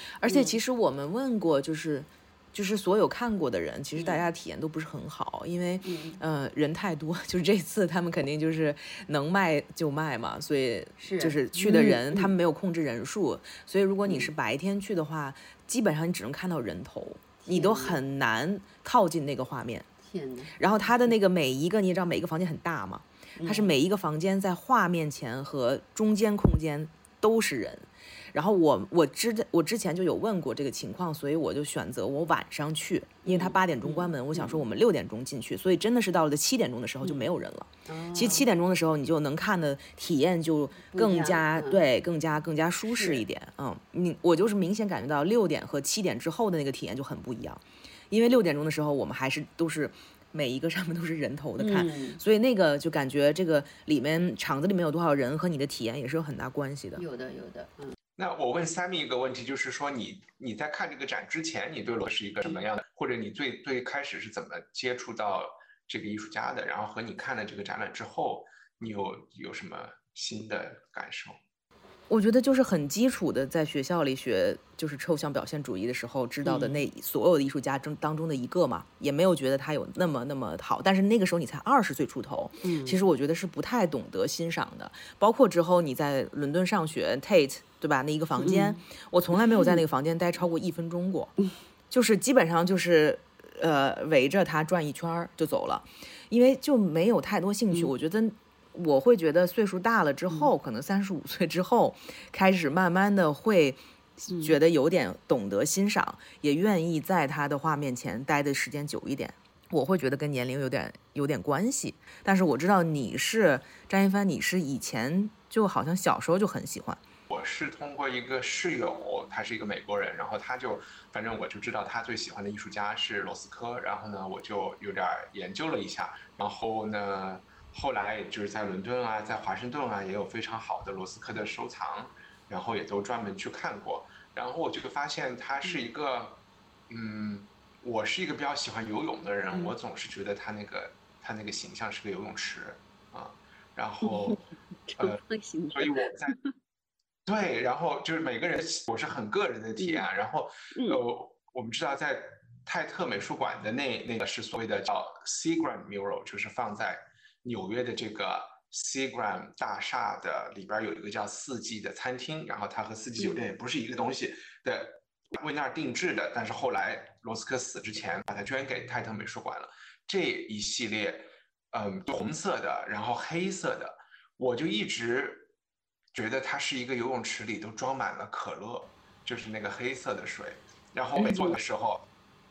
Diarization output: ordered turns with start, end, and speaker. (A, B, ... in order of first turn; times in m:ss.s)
0:00.2-0:19.9 A
0:00.2-0:00.6 B
0:04.0-0:04.2 B
0:05.8-0:06.2 B
0:11.0-0:12.3 B
0:17.4-0:18.0 B
0:20.0-0:20.6 B
0:20.6-0:57.0 A
0:23.4-0:23.7 B
0:33.2-0:34.6 B
0:37.0-0:37.3 B
0:37.9-0:38.4 B
0:40.9-0:41.8 B
0:42.8-0:43.2 B
0:51.6-0:52.2 B
0:57.0-0:57.9 B
0:58.2-1:11.4 C
1:12.1-1:31.3 A
1:16.4-1:16.8 B
1:22.6-1:23.0 B
1:28.4-1:28.8 B
1:29.4-1:29.8 B
1:31.9-1:57.0 A
1:44.3-1:44.6 B
1:57.3-2:24.4 C
2:24.0-2:24.4 B
2:24.9-2:26.5 B
2:25.7-2:26.3 C
2:27.2-2:55.5 C
2:29.8-2:30.0 B
2:30.7-2:31.0 B
2:56.1-3:02.0 C
3:01.2-3:01.5 B